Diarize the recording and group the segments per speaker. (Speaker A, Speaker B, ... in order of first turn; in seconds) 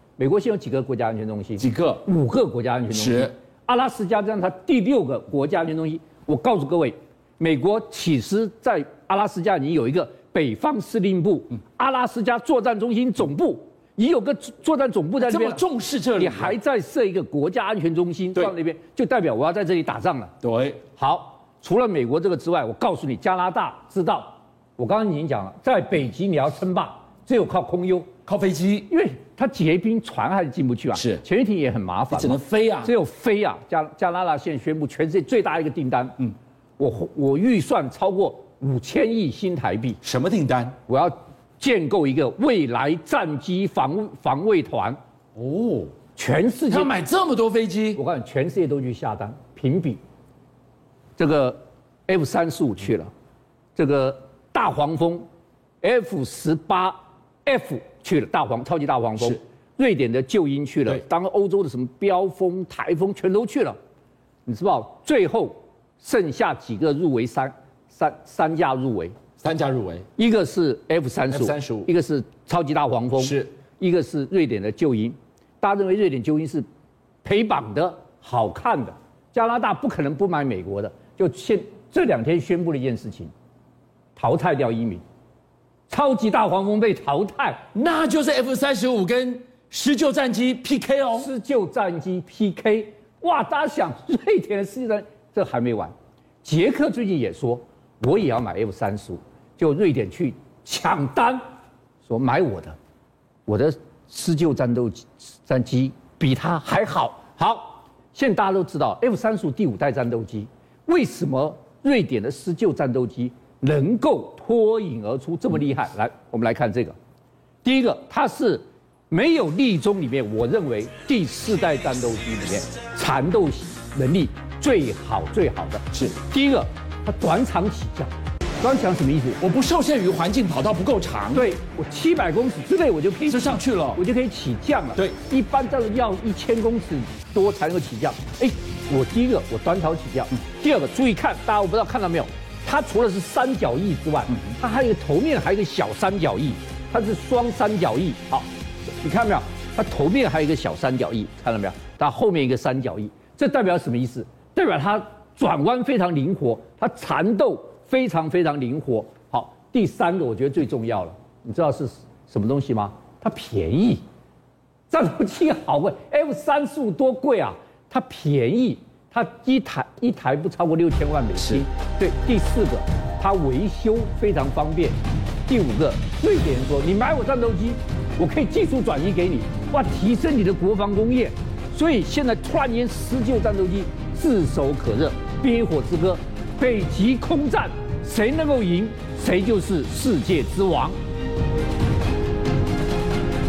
Speaker A: 0.2-20.3, 20.9-28.1, 28.9-40.0, 40.9-45.0, 46.1-47.0, 48.0-50.0, 51.2-53.1, 53.8-55.3, 55.8-63.8, 64.5-69.2, 70.2-76.6, 77.2-83.3, 84.1-85.0, 85.9-87.7, 91.1-101.4, 102.0-102.8, 103.5-116.9, 117.6-129.4, 131.3-164.0, 164.9-190.9
Speaker B: 1.6-2.1, 2.9-3.3, 15.2-16.6, 20.4-20.9, 28.2-28.9, 30.9-31.2, 32.1-32.9, 40.0-40.8, 45.4-46.1, 46.7-48.0, 69.3-70.1, 71.3-71.9, 73.2-73.6, 87.7-91.3, 125.9-126.2, 129.4-131.5, 133.2-134.0, 134.9-135.2, 171.4-171.6